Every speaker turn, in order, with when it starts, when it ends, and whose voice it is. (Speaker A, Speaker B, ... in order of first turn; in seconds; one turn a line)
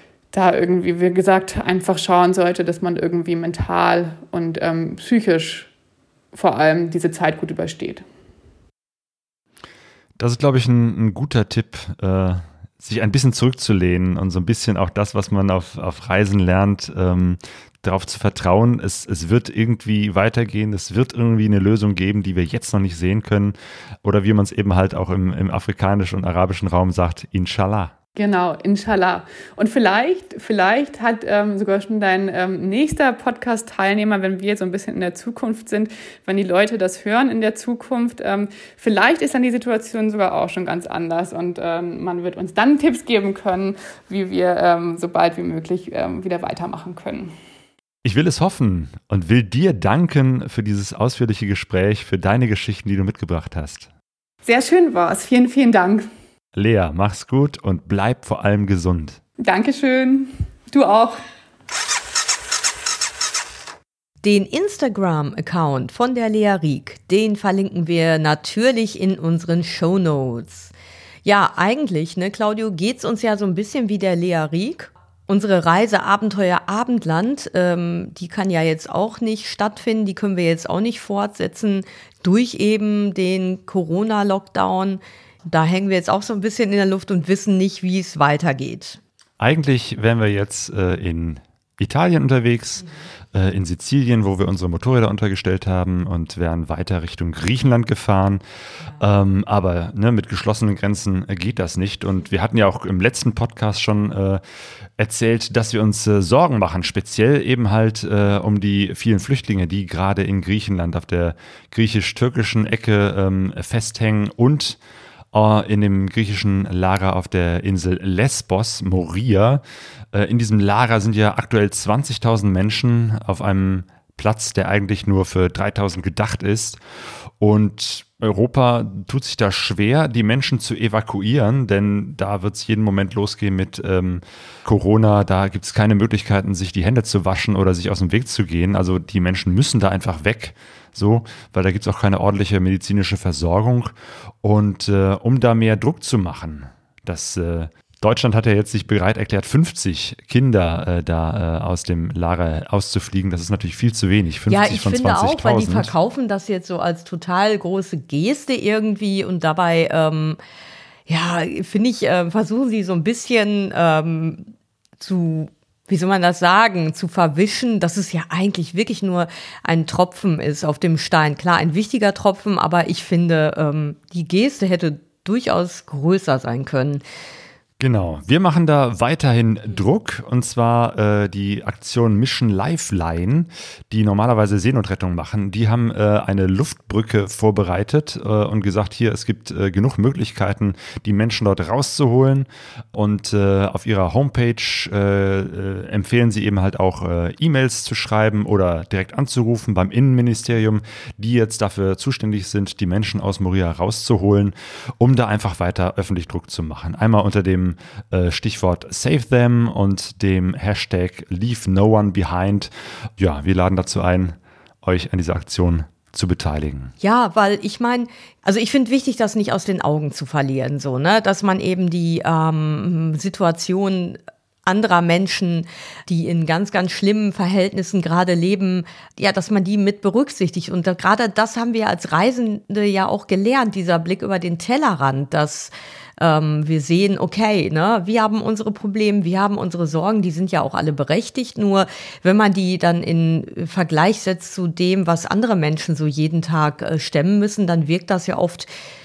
Speaker A: 0.3-5.7
Speaker A: 6.3-8.0
Speaker B: 10.2-27.9
Speaker A: 28.1-47.3
Speaker B: 48.0-53.9
Speaker A: 54.4-56.1
Speaker B: 56.5-59.2
Speaker A: 59.4-61.2
Speaker C: 64.2-70.7
Speaker C: 71.2-89.0
Speaker B: 89.4-98.4
Speaker B: 99.0-104.4
Speaker B: 105.0-114.8
Speaker B: 115.3-119.6
Speaker B: 120.1-126.8
Speaker B: 127.4-143.9
Speaker B: 144.4-155.9
Speaker C: 154.5-160.4
Speaker C: 161.1-177.0
Speaker B: 177.8-216.9
Speaker C: 217.0-248.7